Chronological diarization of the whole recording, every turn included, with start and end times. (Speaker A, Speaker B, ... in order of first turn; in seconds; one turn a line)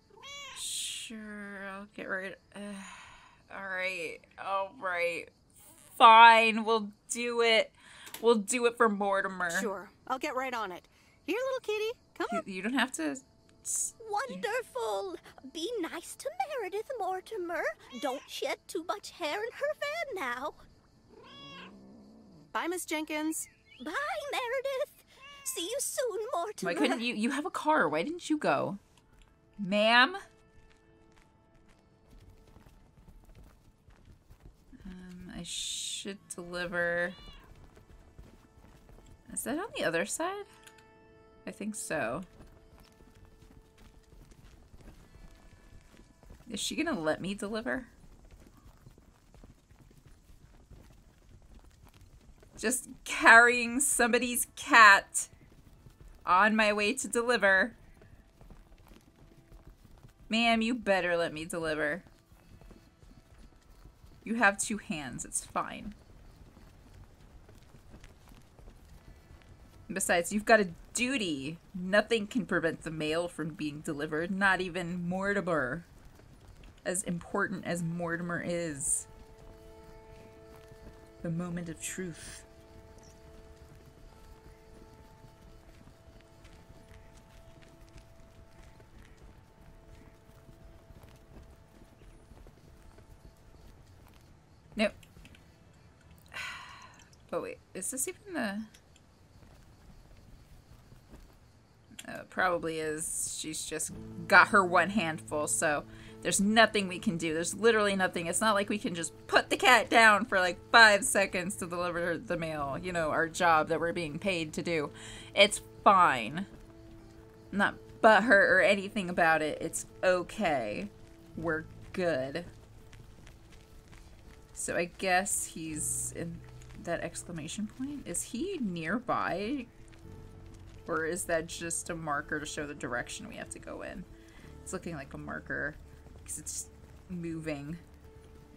Speaker A: 0.6-5.3
Speaker A: 6.0-9.7
Speaker B: 9.5-12.4
Speaker A: 12.3-14.4
Speaker C: 14.0-20.6
Speaker B: 22.5-23.5
Speaker C: 23.8-27.1
Speaker A: 26.6-28.8
Speaker A: 29.6-30.2
Speaker A: 34.9-37.2
Speaker A: 39.3-40.5
Speaker A: 41.5-42.3
Speaker A: 46.5-47.9
Speaker A: 52.6-55.3
Speaker A: 56.2-57.8
Speaker A: 60.3-62.1
Speaker A: 64.2-66.0
Speaker A: 69.9-75.9
Speaker A: 76.8-79.1
Speaker A: 81.2-82.5
Speaker A: 96.3-98.7
Speaker A: 102.0-116.5
Speaker A: 117.5-122.5
Speaker A: 124.5-129.7
Speaker A: 130.9-134.1
Speaker A: 134.6-137.8